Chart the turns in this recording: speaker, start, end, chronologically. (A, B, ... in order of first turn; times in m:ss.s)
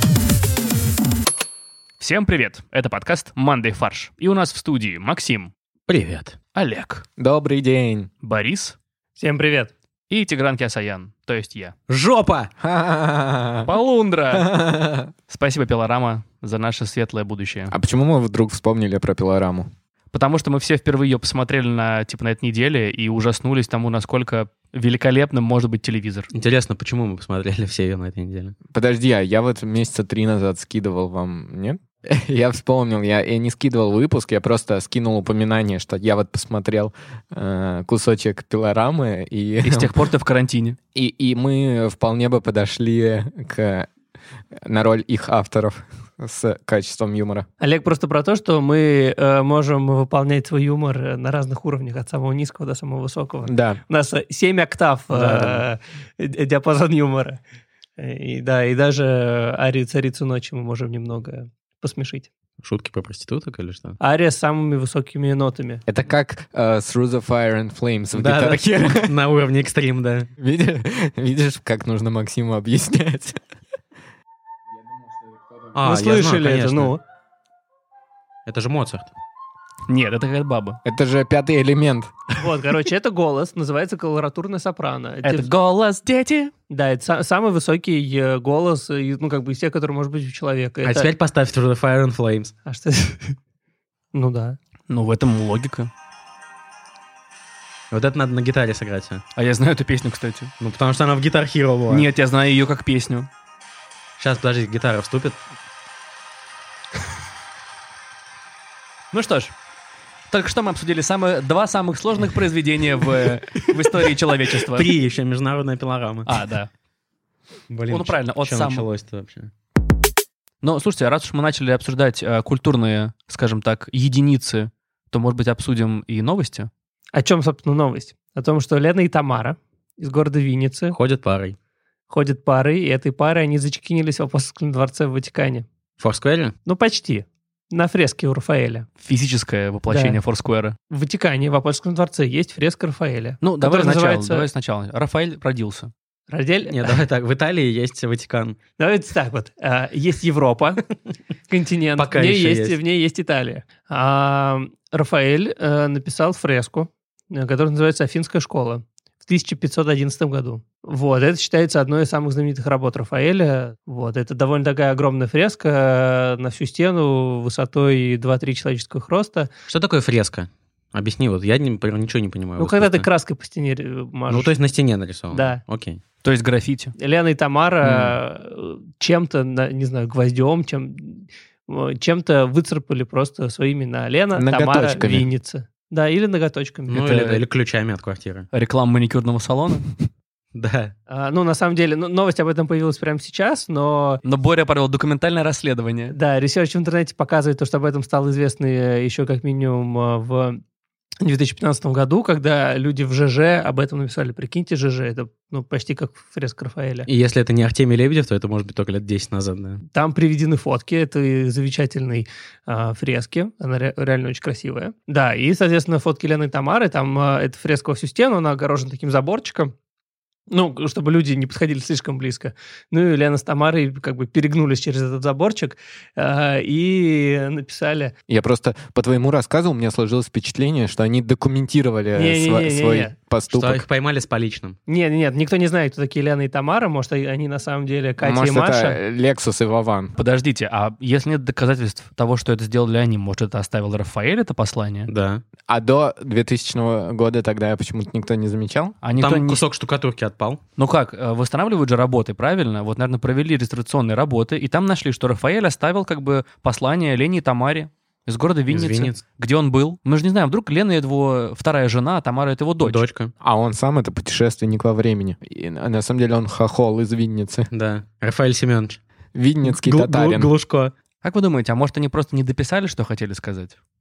0:02.0-0:05.5 A
0:05.9-0:06.4 B
0:06.5-0:07.0 A
0:07.2-0:08.1 C
0:08.2-0:08.8 A
0:09.2-0:09.7 D
0:10.1-0:11.7 A
0:11.9-0:12.5 B
0:12.6-0:13.7 C
0:13.6-0:14.5 A
0:14.3-0:15.1 C
0:15.3-0:17.7 A
0:17.7-0:19.7 C
0:20.1-0:26.3 A
0:26.3-0:28.6 B
0:28.7-0:39.9 C
0:39.6-0:40.8 A
0:40.9-0:43.9 C
0:44.6-0:47.4 C
0:47.6-0:57.4 D
0:53.4-0:53.8 C
0:55.1-0:55.6 B
0:58.0-1:02.3 D
1:02.6-1:04.0 B
1:04.0-1:05.8 D
1:05.9-1:09.1 C
1:08.1-1:10.3 B
1:10.4-1:13.4 C
1:15.7-1:16.9 B
1:15.8-1:17.0 D
1:18.4-1:19.1 B
1:19.9-1:20.8 A
1:20.8-1:22.1 C
1:22.4-1:25.5 D
1:25.2-1:26.5 A
1:26.7-1:31.1 D
1:30.8-1:32.5 B
1:32.6-1:33.4 D
1:34.1-1:34.6 D
1:34.9-1:35.9 A
1:37.9-1:39.2 B
1:39.3-1:40.5 A
1:40.6-1:42.0 B
1:41.9-1:43.3 A
1:44.2-1:45.4 B
1:49.1-1:49.5 A
1:50.3-1:54.9 A
1:54.7-1:56.3 B
1:56.2-1:56.7 A
1:57.7-1:59.5 B
1:57.9-1:58.9 A
2:00.6-2:06.7 A
2:07.1-2:11.0 D
2:10.9-2:11.6 B
2:12.1-2:15.6 D
2:16.0-2:16.5 B
2:16.6-2:18.9 D
2:19.0-2:20.8 A
2:19.9-2:20.2 D
2:20.9-2:24.4 D
2:23.4-2:25.9 A
2:26.3-2:27.0 D
2:26.7-2:28.6 B
2:28.8-2:30.8 D
2:31.5-2:49.5 D
2:32.0-2:32.8 B
2:49.7-2:53.0 B
2:52.6-2:54.5 D
2:54.3-2:56.0 B
2:55.3-2:55.6 D
2:56.2-2:56.9 A
2:57.0-3:07.4 D
2:57.8-2:58.2 B
3:04.3-3:05.3 C
3:06.9-3:08.5 B
3:08.5-3:09.9 A
3:10.5-3:10.9 B
3:11.1-3:14.2 D
3:14.2-3:16.2 A
3:16.1-3:20.6 D
3:21.2-3:27.1 D
3:27.1-3:29.8 B
3:29.9-3:39.7 D
3:40.5-3:48.1 D
3:48.3-3:53.8 C
3:52.1-3:53.1 D
3:53.5-3:54.8 B
3:54.9-3:59.0 D
3:58.2-4:00.1 C
4:00.2-4:05.1 A
4:05.1-4:05.4 B
4:05.7-4:09.0 C
4:09.0-4:09.6 A
4:09.2-4:10.6 B
4:10.8-4:23.0 A
4:18.7-4:19.2 B
4:22.8-4:23.3 B
4:23.4-4:27.7 C
4:27.7-4:29.0 B
4:29.3-4:30.5 C
4:29.6-4:30.9 B
4:31.2-4:33.8 A